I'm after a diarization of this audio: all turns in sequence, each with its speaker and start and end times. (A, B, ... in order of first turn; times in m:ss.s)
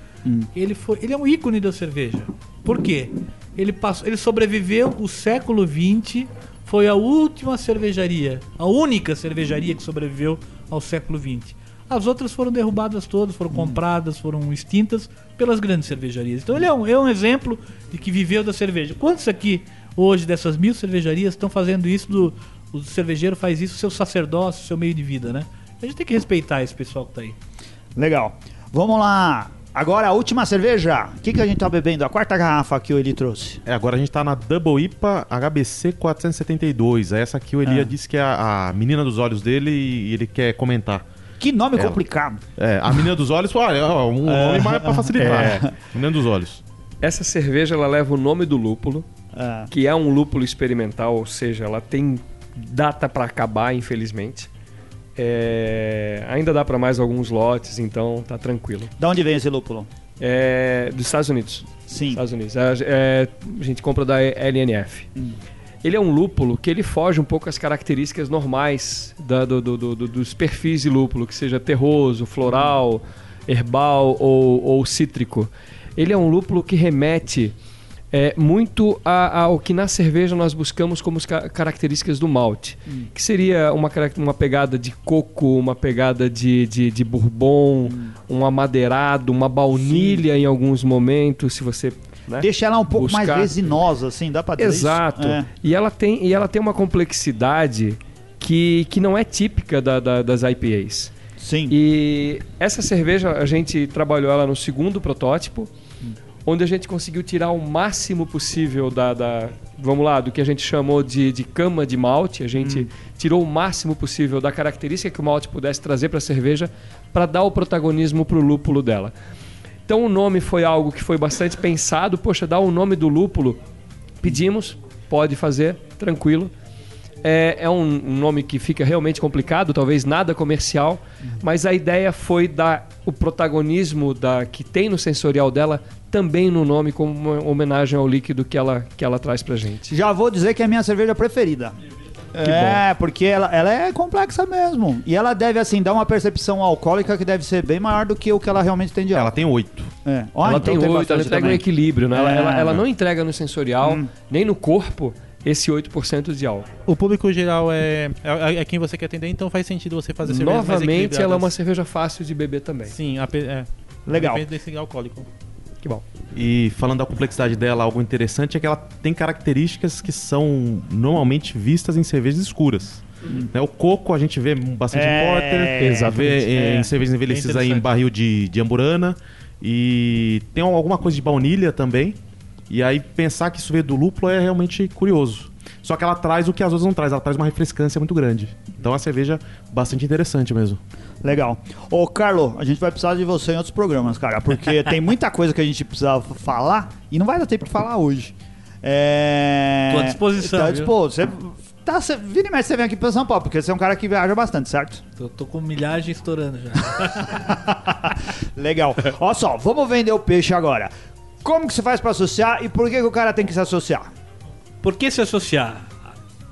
0:00.5-0:27.4 A
0:13.5-0:13.8 B
0:28.0-0:33.6 B
0:33.6-0:41.0 C
0:37.6-0:37.9 B
0:41.4-0:42.4 B
0:42.6-0:46.6 C
0:44.2-0:45.6 B
0:45.2-0:45.7 D
0:47.0-0:49.1 D
0:49.3-0:49.7 B
0:49.7-0:54.5 D
0:55.2-0:58.9 D
0:59.0-0:59.9 B
1:00.2-1:05.1 D
1:01.9-1:02.2 B
1:05.8-1:17.5 D
1:18.1-1:33.6 D
1:27.8-1:28.1 B
1:29.8-1:30.2 B
1:32.4-1:35.5 B
1:34.6-1:41.1 D
1:41.4-1:41.8 B
1:41.7-1:45.7 D
1:46.4-1:59.1 D
1:52.6-1:52.9 B
1:59.9-2:03.6 D
2:04.2-2:06.5 D
2:07.2-2:20.0 D
2:19.9-2:21.7 B
2:22.3-2:29.4 B
2:22.4-2:22.8 D
2:29.1-2:29.9 C
2:30.0-2:32.8 B
2:30.4-2:36.6 D
2:33.8-2:34.1 B
2:36.8-2:41.5 E
2:40.2-2:42.9 D
2:42.9-2:45.3 E
2:44.1-2:44.5 B
2:46.3-3:02.2 C
2:54.9-2:56.9 B
2:55.8-2:56.4 D
2:57.3-2:57.8 A
3:02.7-3:10.8 C
3:11.2-3:25.0 B
3:19.9-3:20.9 A
3:25.2-3:27.6 A
3:27.3-3:30.9 B
3:31.4-3:34.1 B
3:34.8-3:36.0 A